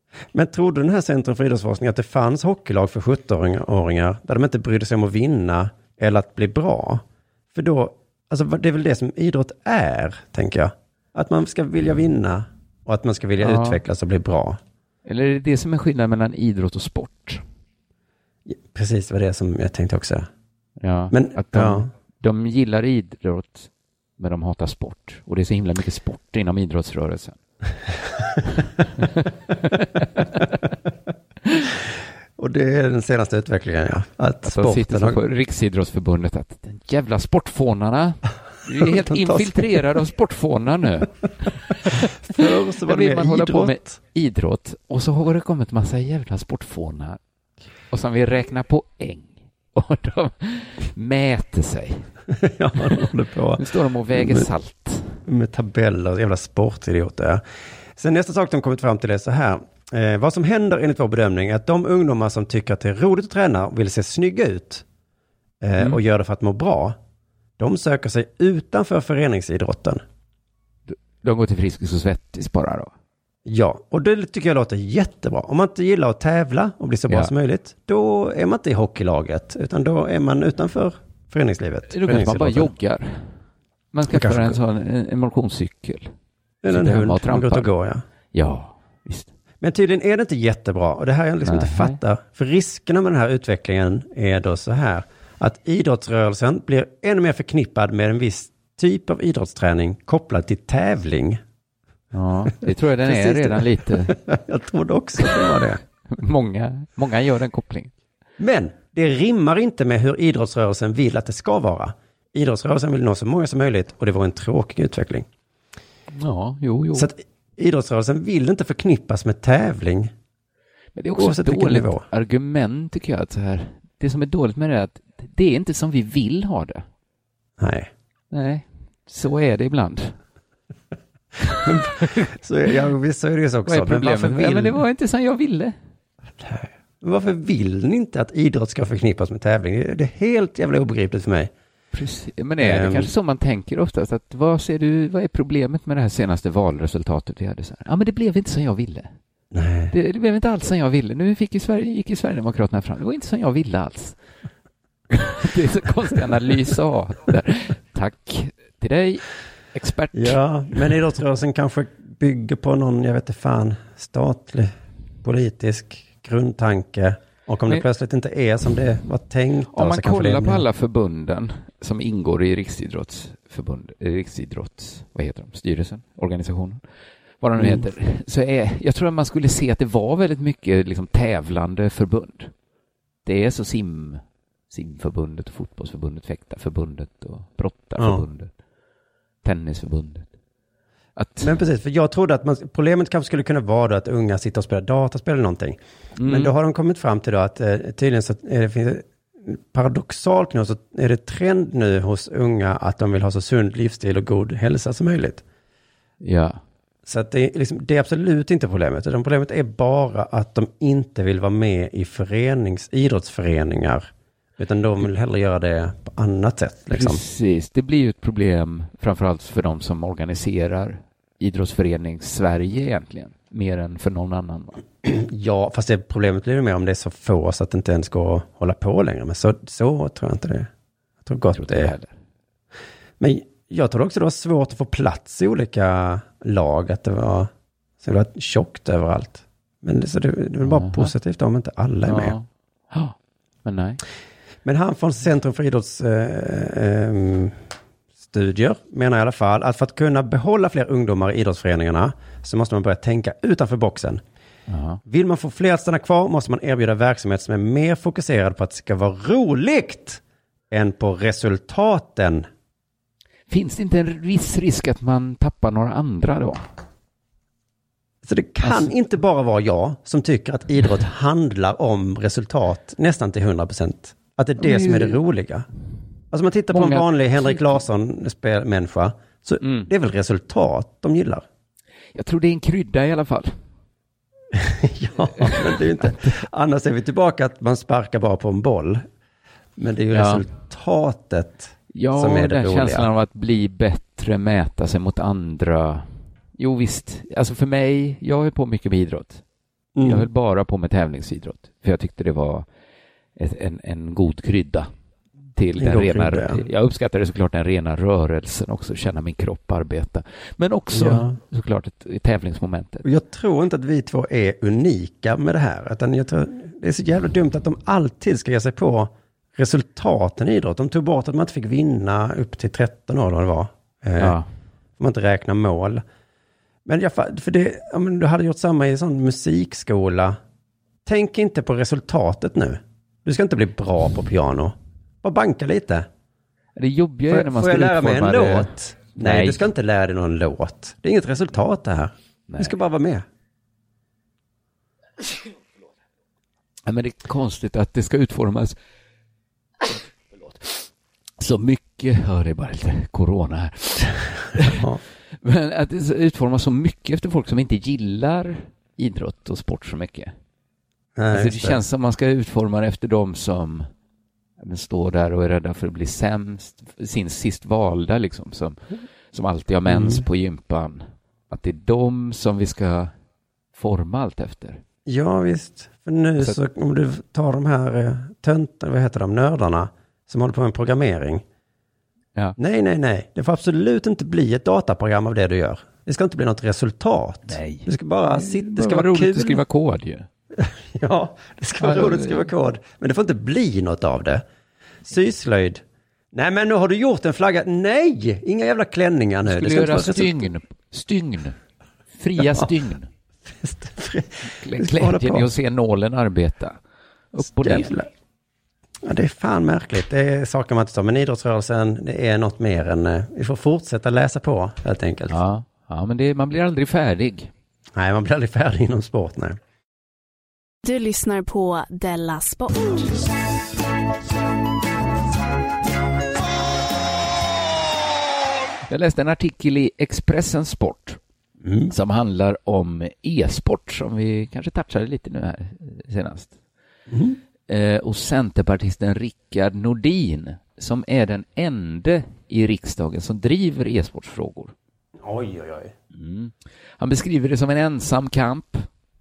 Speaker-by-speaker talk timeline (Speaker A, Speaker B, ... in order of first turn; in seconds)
Speaker A: 0.3-14.6, 18.5-20.3, 21.1-21.9, 32.4-35.2, 38.8-40.0, 42.0-44.0, 52.3-54.5, 55.3-57.4, 58.0-64.8, 65.6-67.0, 67.6-70.0, 73.5-82.7, 84.1-84.6, 86.6-88.0, 89.6-101.4, 103.0-105.8, 108.4-115.3, 117.0-120.1, 121.2-122.0, 127.6-127.9, 131.6-134.8, 136.4-141.5, 142.6-143.1, 149.5-149.9, 160.1-170.6, 177.6-177.9, 188.0-188.2, 191.4-205.4, 207.1-217.2, 225.0-230.7, 231.2-231.9, 233.2-242.3, 244.7-247.6, 248.2-254.2, 255.1-262.5, 268.2-275.7, 276.3-281.5, 284.6-289.1, 289.8-293.1, 299.9-300.3, 305.8-306.6, 310.9-311.4, 313.0-324.4, 325.0-326.0, 326.9-330.4, 331.1-336.1, 337.3-343.2, 354.6-355.0, 361.2-361.8, 369.9-370.2, 375.1-381.4, 382.6-389.6, 390.6-394.4, 395.0-400.3, 402.4-402.7, 403.4-405.5, 407.4-408.1, 409.0-415.4, 417.9-419.6, 431.6-431.9, 437.1-437.4, 445.2-445.9
Speaker B: 13.4-13.8, 15.1-17.4, 20.8-27.4, 29.0-30.5, 34.5-47.2, 47.9-52.1, 53.6-55.2, 70.9-72.9, 81.9-83.4, 83.9-86.1, 86.7-87.7, 88.3-89.3, 91.4-92.0, 102.1-104.2, 105.2-107.9, 116.1-117.1, 121.0-126.8, 128.3-130.2, 131.5-132.2, 133.7-135.8, 141.9-149.1, 149.9-154.2, 155.1-160.4, 169.7-176.8, 177.4-182.5, 183.2-188.5, 189.4-190.3, 191.2-191.6, 196.2-196.5, 206.2-206.6, 216.9-224.8, 231.5-232.2, 240.6-241.1, 242.1-244.0, 254.7-255.0, 263.5-266.7, 268.6-268.9, 274.6-275.2, 276.7-277.8, 279.6-279.9, 282.1-283.6, 285.4-286.4, 290.1-290.4, 291.9-299.4, 300.0-302.7, 303.4-304.9, 305.6-313.1, 324.2-324.5, 336.8-339.6, 342.5-342.7, 346.9-348.8, 350.3-350.9, 351.4-354.8, 355.4-360.3, 361.3-363.9, 364.6-368.8, 369.3-373.1, 373.8-374.8, 387.5-390.3, 391.8-392.5, 399.4-401.6, 402.1-403.1, 404.4-406.8, 407.3-408.0, 415.3-417.5, 428.9-431.2, 431.9-436.5, 437.7-444.7, 446.1-448.9
Speaker C: 420.8-423.2